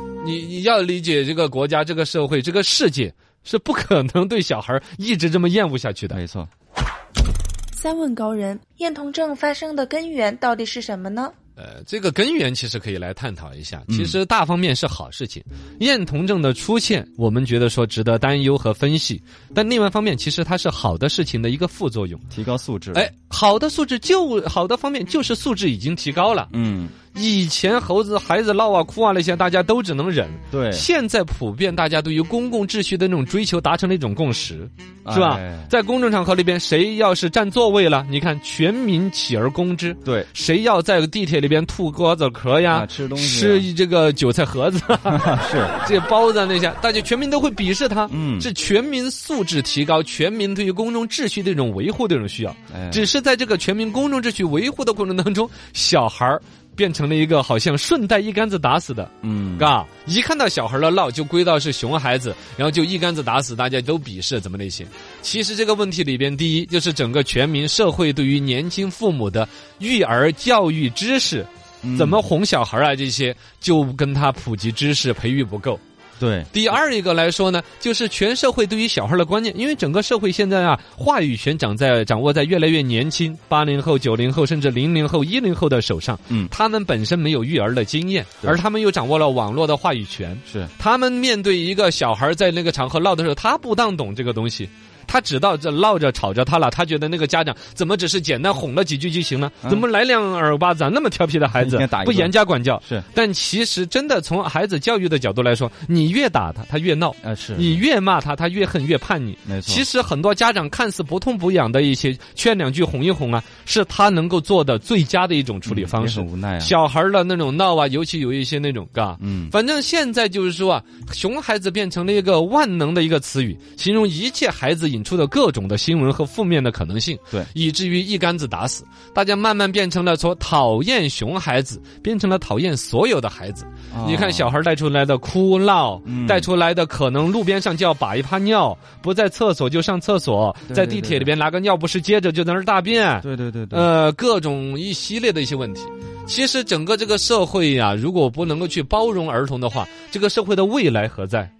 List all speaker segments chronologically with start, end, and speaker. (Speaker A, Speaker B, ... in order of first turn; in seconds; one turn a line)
Speaker A: 0.2-6.2
Speaker B: 6.1-6.5
Speaker C: 7.8-11.3
Speaker A: 11.6-22.2
Speaker B: 13.9-14.2
Speaker B: 22.3-23.1
Speaker A: 22.9-26.5
Speaker B: 26.5-26.9
Speaker A: 27.1-75.8
Speaker B: 30.5-30.9
Speaker B: 35.0-35.7
Speaker B: 40.0-40.3
Speaker B: 42.6-43.7
Speaker B: 45.1-45.8
Speaker B: 48.1-48.5
Speaker B: 52.7-53.1
Speaker B: 59.2-59.7
Speaker B: 71.8-72.2
Speaker B: 76.2-76.5
Speaker A: 76.5-151.5
Speaker B: 90.5-90.7
Speaker B: 101.5-103.0
Speaker B: 107.2-107.8
Speaker B: 109.5-109.8
Speaker B: 115.7-116.7
Speaker B: 119.2-119.5
Speaker B: 133.9-134.6
Speaker B: 136.0-136.5
Speaker B: 140.7-141.3
Speaker B: 143.2-143.9